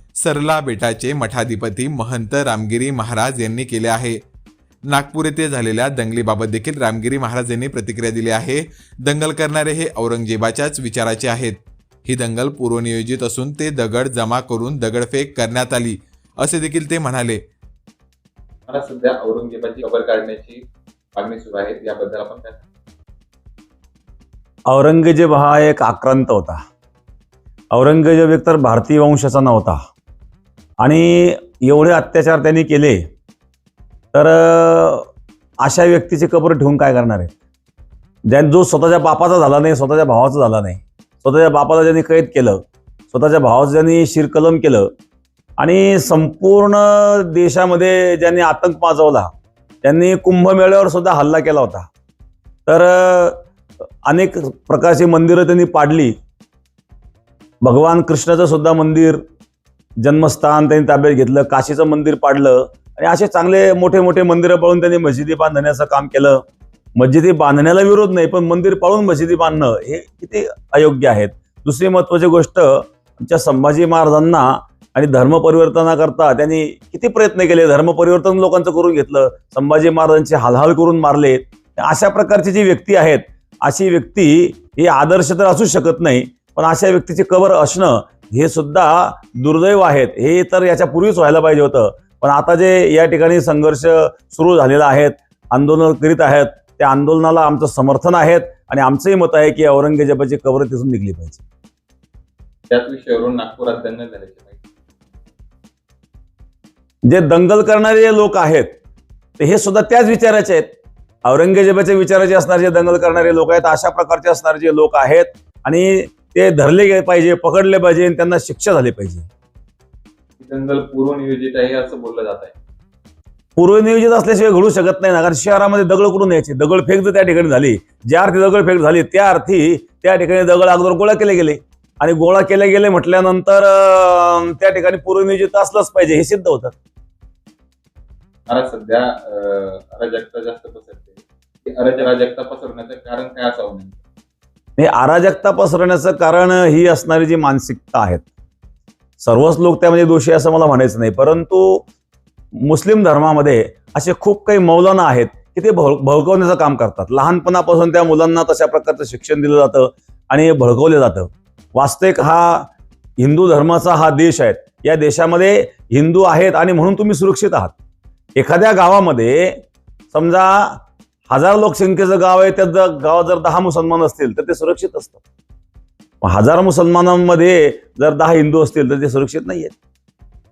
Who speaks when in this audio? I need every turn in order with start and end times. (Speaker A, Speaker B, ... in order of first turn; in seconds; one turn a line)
Speaker A: 0.2-4.2
Speaker A: 4.9-17.4
Speaker B: 18.7-20.6
Speaker B: 21.1-22.6
Speaker C: 24.7-26.6
Speaker C: 27.7-29.8
Speaker C: 30.8-33.1
Speaker C: 34.1-35.1
Speaker C: 35.6-37.3
Speaker C: 38.2-44.9
Speaker C: 45.6-49.3
Speaker C: 49.8-51.9
Speaker C: 52.7-53.5
Speaker C: 54.0-56.1
Speaker C: 57.6-59.2
Speaker C: 60.0-66.4
Speaker C: 67.0-101.4
Speaker B: 102.7-104.6
Speaker C: 107.0-108.8
Speaker C: 109.4-110.7
Speaker C: 111.2-119.3
Speaker B: 120.4-122.5
Speaker C: 123.6-136.8
Speaker B: 138.5-144.0
Speaker C: 144.8-148.3
Speaker C: 149.2-151.9
Speaker C: 152.6-167.7
Speaker C: 168.3-175.2
Speaker C: 176.2-179.7